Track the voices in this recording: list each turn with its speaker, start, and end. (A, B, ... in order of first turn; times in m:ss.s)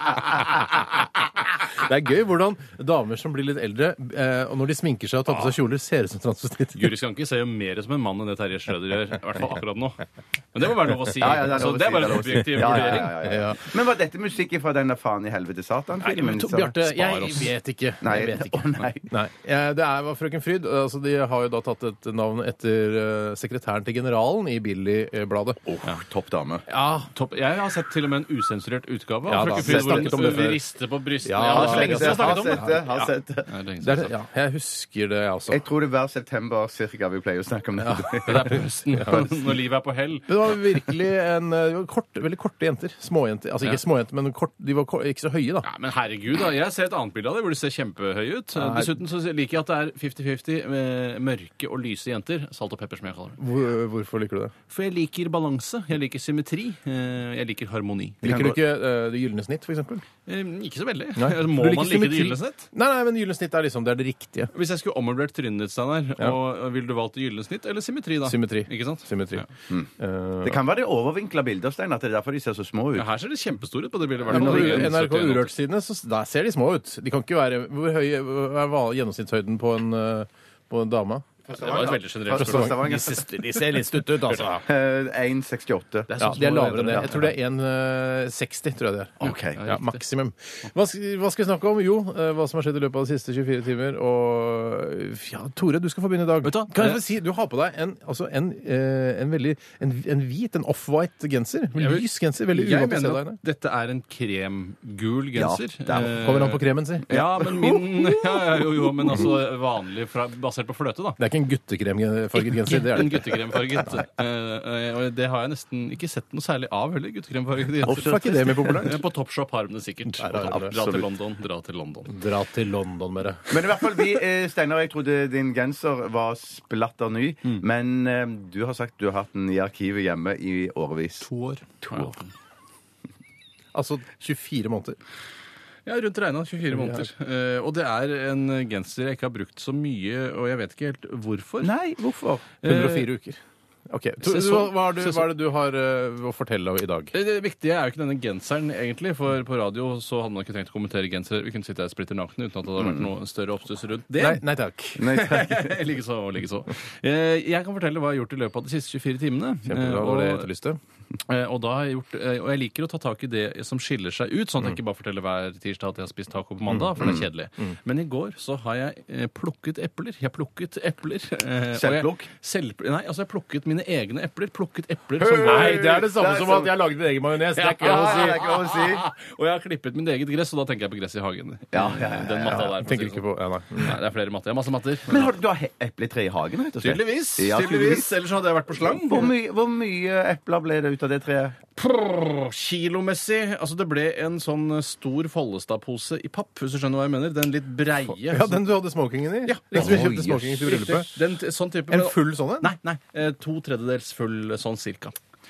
0:01.7-0:06.9 A
0:06.8-0:13.1 B
0:11.2-0:17.2 C
0:12.4-0:13.7 A
0:16.2-0:25.6 A
0:16.9-0:17.5 B
0:18.0-0:19.1 C
0:25.7-0:26.6 C
0:26.7-0:27.1 A
0:27.1-0:32.8 B
0:29.2-0:30.6 A
0:29.7-0:30.1 C
0:31.2-0:33.1 A
0:31.3-0:33.5 C
0:33.5-0:34.1 B
0:33.8-0:35.6 A
0:35.5-0:38.5 C
0:37.8-0:38.1 A
0:38.1-0:40.8 B
0:38.9-0:39.5 A
0:40.3-0:45.7 A
0:45.6-0:53.4 B
0:48.6-0:48.9 A
0:53.4-0:54.5 A
0:54.7-0:58.2 B
0:58.2-0:58.6 C
0:58.2-1:00.0 A
1:00.3-1:02.7 B
1:01.2-1:04.5 A
1:04.5-1:09.4 B
1:08.2-1:09.4 A
1:10.0-1:10.6 A
1:10.4-1:13.1 C
1:12.9-1:15.5 B
1:14.3-1:21.3 A
1:14.3-1:14.9 C
1:21.5-1:23.3 C
1:21.6-1:23.2 B
1:22.3-1:24.6 A
1:24.5-1:26.1 C
1:26.1-1:27.3 B
1:26.2-1:43.4 A
1:29.2-1:29.6 C
1:29.5-1:30.0 B
1:36.4-1:37.0 B
1:41.8-1:51.2 B
1:45.3-1:46.2 C
1:46.1-1:47.1 A
1:47.1-1:49.3 C
1:51.2-1:53.4 A
1:52.4-2:02.1 B
1:57.8-1:58.8 C
1:57.9-1:59.0 A
2:00.1-2:00.8 A
2:00.7-2:01.0 C
2:02.1-2:03.6 A
2:03.5-2:11.3 C
2:11.2-2:11.6 A
2:11.8-2:12.2 C
2:11.9-2:12.3 B
2:13.7-2:15.0 A
2:15.8-2:21.7 B
2:16.7-2:17.0 A
2:21.6-2:22.4 C
2:22.6-2:23.1 B
2:22.6-2:27.1 A
2:24.2-2:25.2 B
2:27.1-2:34.4 B
2:32.8-2:33.1 C
2:34.2-2:35.1 A
2:35.0-2:35.7 C
2:35.0-2:40.4 B
2:39.7-2:40.8 A
2:41.3-2:55.9 B
2:46.7-2:47.8 A
2:47.0-2:47.2 C
2:51.7-2:52.3 C
2:55.2-2:56.8 C
2:55.4-2:58.4 A
2:57.6-3:03.2 B
2:57.8-2:59.0 C
3:01.7-3:02.7 C
3:02.5-3:04.0 A
3:03.8-3:05.3 B
3:05.1-3:08.1 C
3:06.8-3:09.3 B
3:08.8-3:11.6 C
3:11.8-3:18.6 B
3:18.2-3:21.1 A
3:19.4-3:25.2 B
3:19.7-3:20.6 C
3:21.9-3:22.7 A